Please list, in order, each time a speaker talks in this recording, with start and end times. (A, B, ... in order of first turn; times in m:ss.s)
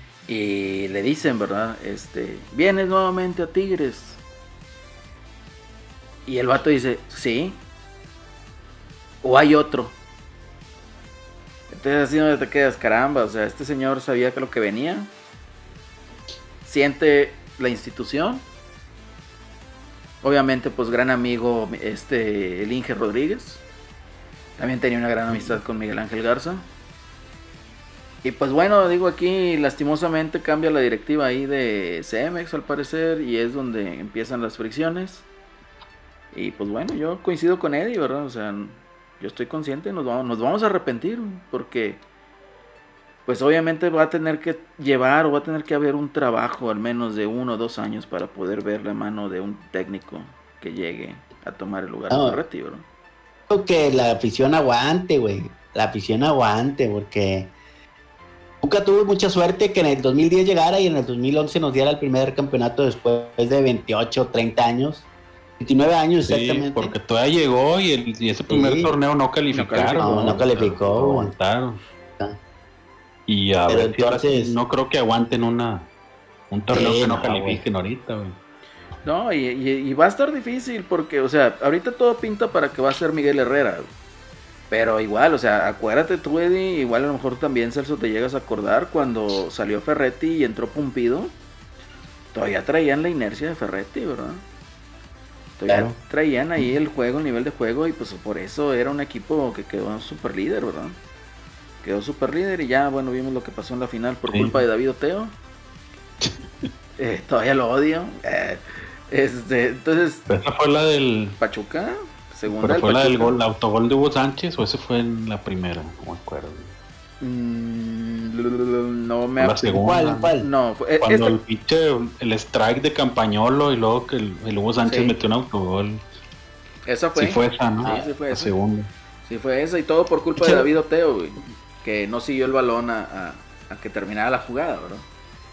0:00.3-0:04.2 A
0:06.3-0:07.6 A
0:09.2-0:09.9 A
0:11.7-0:15.1 A
0:16.6-0:18.4 A
0:20.2-0:23.6 A
0:24.6-0:26.6 A
0:28.2-0:35.3 A
0:36.3-0:42.0 A
0:43.3-0:52.8 A
0:52.1-0:52.4 B
0:53.5-0:57.5 B
0:58.6-1:05.1 B
1:05.6-1:07.0 B
1:06.3-1:11.8 C
1:08.5-1:08.9 B
1:09.5-1:10.6 A
1:10.0-1:11.3 B
1:13.3-1:15.9 C
1:13.7-1:14.5 B
1:16.5-1:18.4 C
1:16.7-1:17.6 B
1:19.0-1:23.9 A
1:24.7-1:31.3 A
1:32.3-1:34.4 A
1:35.6-1:41.0 A
1:35.7-1:36.0 B
1:41.8-1:45.3 A
1:44.3-1:44.6 C
1:46.2-1:46.7 C
1:47.0-1:50.2 A
1:50.3-1:51.4 C
1:51.4-1:53.4 A
1:52.6-1:56.7 C
1:57.2-1:59.7 A
1:59.4-2:00.3 C
1:59.7-2:00.5 B
2:00.4-2:01.4 A
2:01.0-2:06.0 C
2:04.8-2:05.2 A
2:06.9-2:08.5 A
2:07.2-2:08.9 C
2:07.8-2:08.1 B
2:09.3-2:15.0 A